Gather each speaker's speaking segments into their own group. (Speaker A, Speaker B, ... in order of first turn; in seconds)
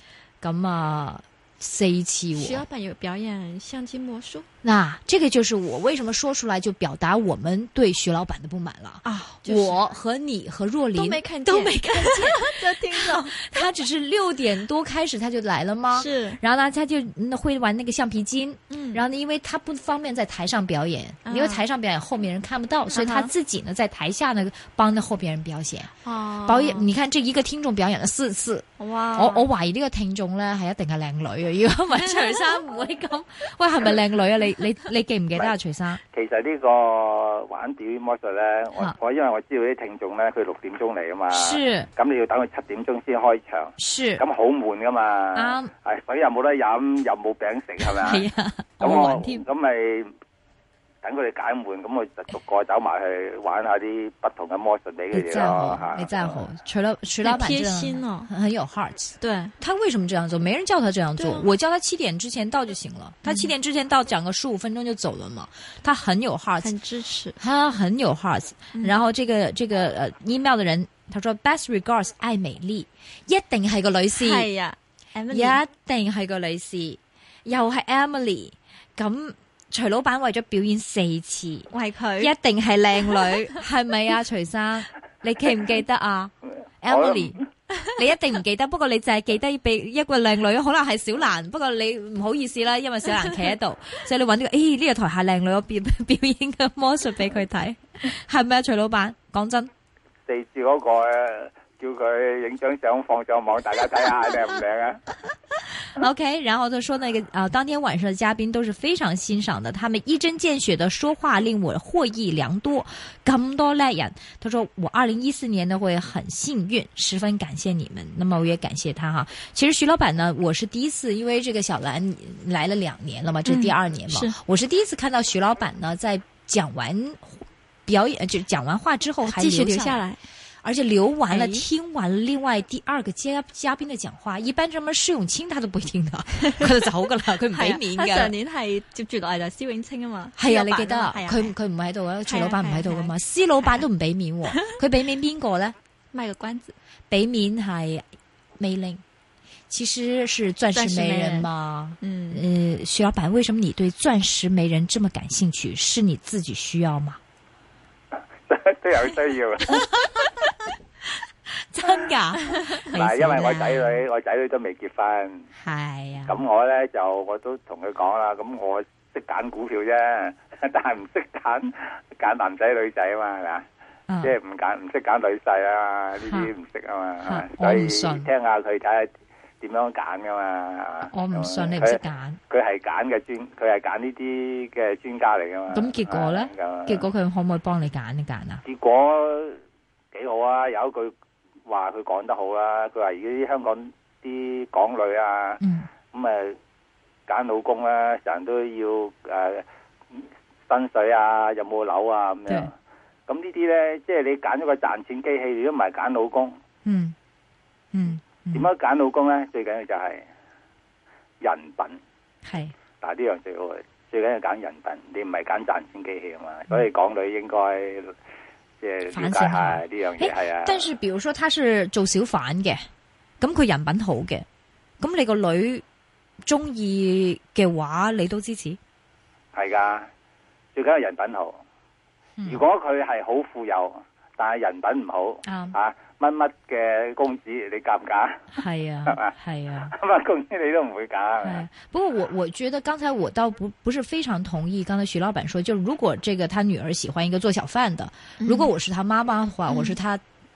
Speaker A: 0.4-2.6, 4.6-25.9, 26.4-36.0, 41.3-41.9, 43.8-44.2, 45.3-45.7, 47.8-49.4, 55.1-66.7, 67.4-74.5, 75.3-87.4, 87.9-99.7, 105.9-130.0, 130.6-138.3, 140.3-145.7, 147.1-148.0, 148.6-149.0, 149.7-157.2, 159.7-160.2, 161.6-164.0, 165.6-166.4, 174.1-174.3, 177.2-178.3, 181.1-182.4, 185.7-188.6, 195.6-195.9, 206.8-207.1, 207.9-208.7, 212.4-212.7, 219.1-222.9, 223.4-224.4, 225.0-225.8, 226.4-228.8, 232.4-232.6, 235.4-235.8, 238.5-239.9, 241.4-250.2
Speaker B: 2.3-4.5, 9.0-9.8, 10.9-13.5, 15.9-16.4, 18.7-19.0, 21.2-21.6, 22.9-23.3, 26.0-26.9, 28.8-29.5, 57.2-58.3, 59.2-59.5, 61.2-61.5, 63.2-63.5, 66.6-67.4, 74.1-75.6, 81.7-82.3, 123.4-124.3, 129.2-130.2, 131.3-131.7, 137.5-141.5, 142.2-143.1, 146.1-146.8, 150.7-151.5, 152.0-152.4, 248.4-248.7, 249.7-250.0
Speaker C: 36.1-48.2, 48.8-50.1, 51.0-56.4, 86.9-87.3, 100.3-105.0, 158.4-159.8, 162.9-165.5, 166.2-173.6, 174.2-179.1, 179.6-187.0, 188.6-189.6, 190.1-191.1, 191.7-196.6, 197.3-202.7, 203.3-206.6, 208.5-210.3, 211.4-212.0, 213.0-218.1, 218.8-220.9, 229.5-230.1, 230.7-231.6, 232.4-239.3, 239.9-241.6